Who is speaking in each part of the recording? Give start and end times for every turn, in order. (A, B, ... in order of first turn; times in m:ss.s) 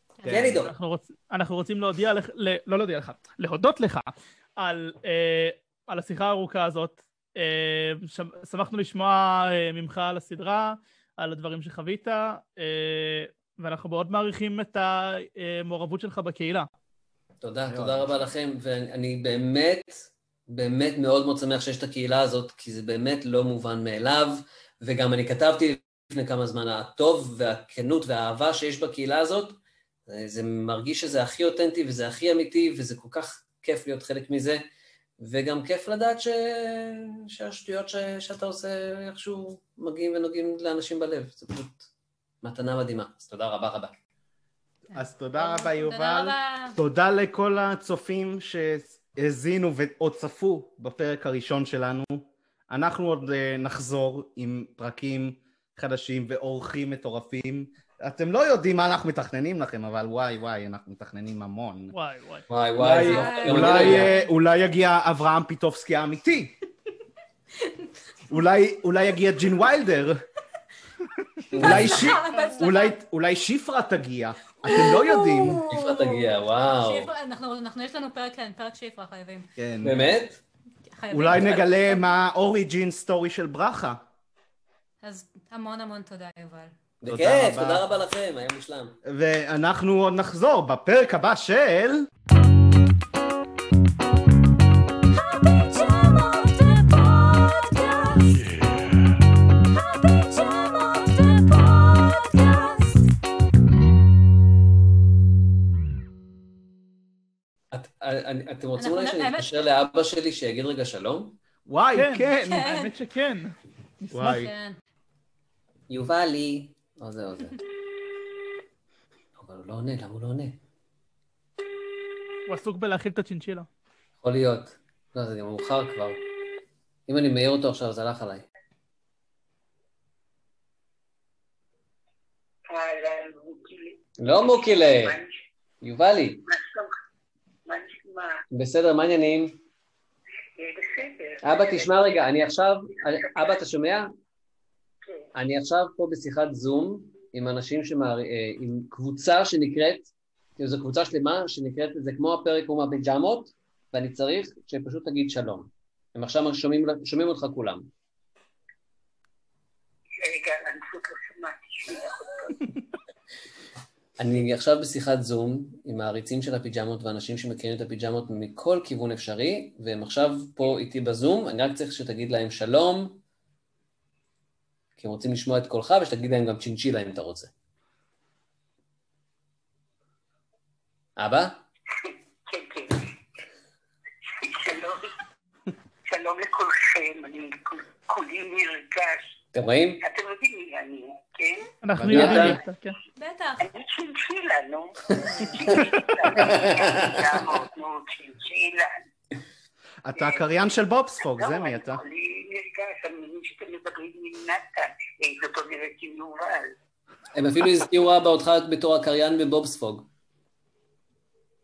0:00.2-0:00.6 A
0:00.2-0:00.7 B
0:00.6-0:16.7 C
0:17.4-0:34.6 B
0:17.7-0:18.1 A
0:35.2-0:41.9 B
0:42.4-0:44.0 B
0:44.9-0:46.8 D
0:44.9-1:01.9 A
1:01.9-1:02.4 C
1:02.5-1:04.1 B
1:02.8-1:06.5 A
1:03.0-1:04.3 D
1:07.6-1:08.4 D
1:08.3-1:10.2 A
1:11.5-1:12.2 B
1:11.5-1:15.6 A
1:11.6-1:13.0 D
1:14.6-1:19.5 D
1:15.7-1:17.1 B
1:19.6-1:20.1 A
1:19.8-1:20.4 B
1:20.9-1:22.0 D
1:21.1-1:24.0 A
1:25.0-1:26.7 D
1:27.0-1:29.0 B
1:27.0-1:27.8 A
1:29.0-1:32.1 A
1:35.1-1:38.6 D
1:39.7-1:43.1 D
1:47.7-1:51.4 B
1:48.8-1:49.5 D
1:51.6-1:52.8 A
1:51.9-1:54.3 C
1:52.4-1:52.9 D
1:54.1-1:54.5 A
1:54.2-1:54.8 D
1:55.9-1:57.6 B
1:59.4-2:00.6 B
2:02.5-2:03.7 C
2:04.2-2:06.2 B
2:07.1-2:08.4 B
2:12.7-2:14.0 E
2:14.2-2:15.2 B
2:15.0-2:15.3 E
2:15.8-2:16.4 B
2:16.4-2:16.9 E
2:17.7-2:18.4 E
2:18.5-2:19.6 B
2:20.6-2:22.0 E
2:21.4-2:24.1 B
2:23.1-2:23.6 E
2:25.3-2:37.9 B
2:40.2-2:42.6 E
2:44.2-2:53.2 B
2:55.0-2:57.5 B
3:01.2-3:01.6 B
3:02.5-3:03.0 E
3:04.4-3:05.1 E
3:06.1-3:09.2 E
3:09.5-3:10.0 B
3:10.0-3:11.7 E
3:11.8-3:13.0 C
3:12.0-3:12.6 A
3:12.1-3:12.6 B
3:13.2-3:13.6 D
3:13.6-3:18.9 E
3:15.1-3:17.6 B
3:20.0-3:22.0 A
3:20.2-3:20.4 E
3:21.2-3:26.7 E
3:27.3-3:30.1 B